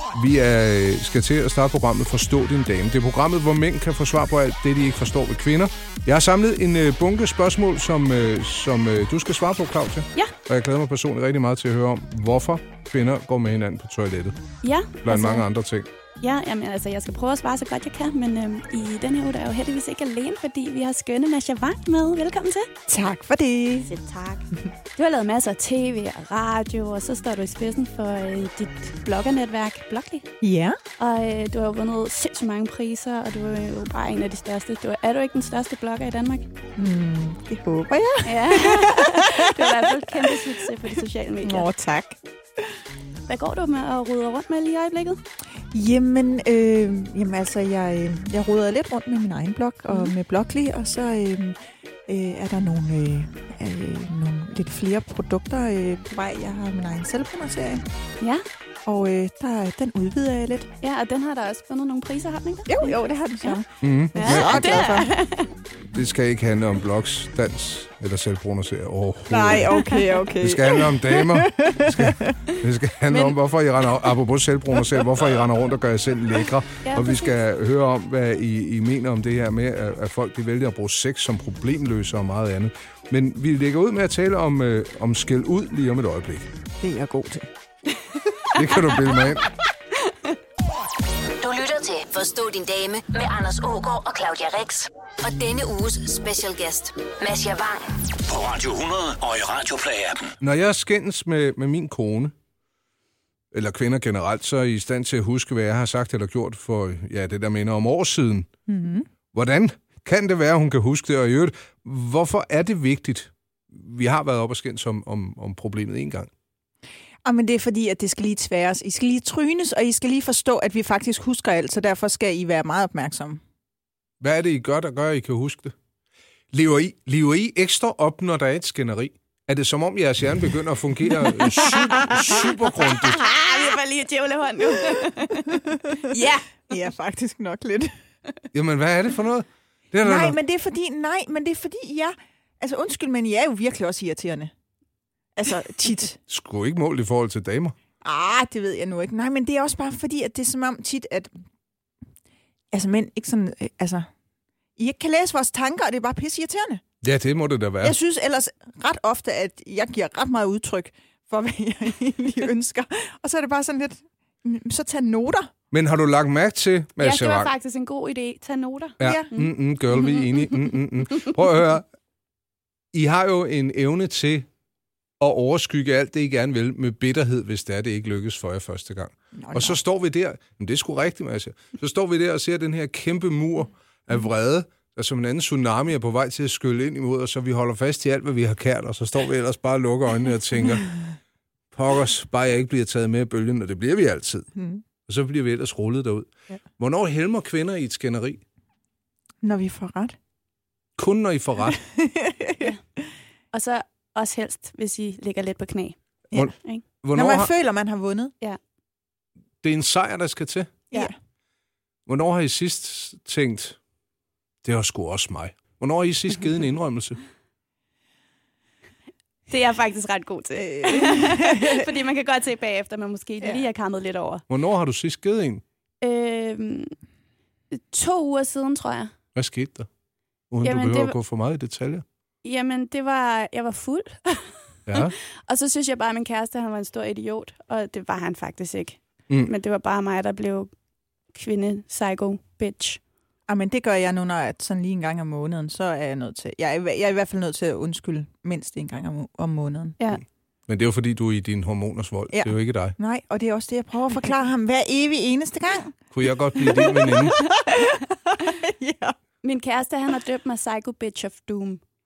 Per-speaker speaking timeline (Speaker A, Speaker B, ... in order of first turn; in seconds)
Speaker A: 0.1-14.4, 15.1-15.9, 63.8-65.1, 65.9-69.9, 70.4-86.5, 88.5-89.5, 100.4-102.3, 103.5-108.5, 109.3-116.3, 124.2-125.7, 126.5-133.3, 138.5-140.4, 146.3-147.8, 157.0-158.0, 165.7-167.5, 169.0-171.9, 172.9-174.5, 175.2-191.0, 191.7-194.5, 195.1-198.4, 201.0-201.8, 206.3-207.5, 209.6-210.8, 212.1-213.8, 214.6-217.2, 224.5-225.6, 229.3-229.9, 230.5-232.0, 234.9-235.1, 250.7-252.9, 256.1-257.4
Speaker B: 14.6-15.5, 16.2-22.7, 23.8-30.3, 31.0-36.5, 38.2-41.7, 43.3-45.2, 60.8-63.6, 64.2-65.5, 69.8-70.2, 73.1-73.4, 76.8-77.4, 132.3-136.7, 167.0-170.7, 203.5-206.0, 219.5-224.4, 226.0-226.9, 227.7-229.1, 230.6-231.1, 232.4-240.7, 241.3-243.0, 257.4-257.9, 259.4-261.8
Speaker C: 22.9-23.9, 30.4-30.8, 36.8-40.7, 41.4-42.7, 45.7-57.9, 58.9-60.7, 62.7-65.1, 69.3-72.3, 86.8-87.5, 108.7-109.1, 117.2-123.4, 131.5-132.2, 134.9-137.9, 140.0-144.5, 145.4-146.2, 148.0-151.4, 152.7-154.1, 154.8-156.8, 157.8-165.5, 169.0-169.3, 179.4-179.8, 194.6-194.8, 199.4-200.2, 201.7-202.7, 207.1-208.3, 220.8-221.8, 243.5-250.0, 252.3-259.2
Speaker D: 91.4-98.0
Speaker E: 98.3-100.3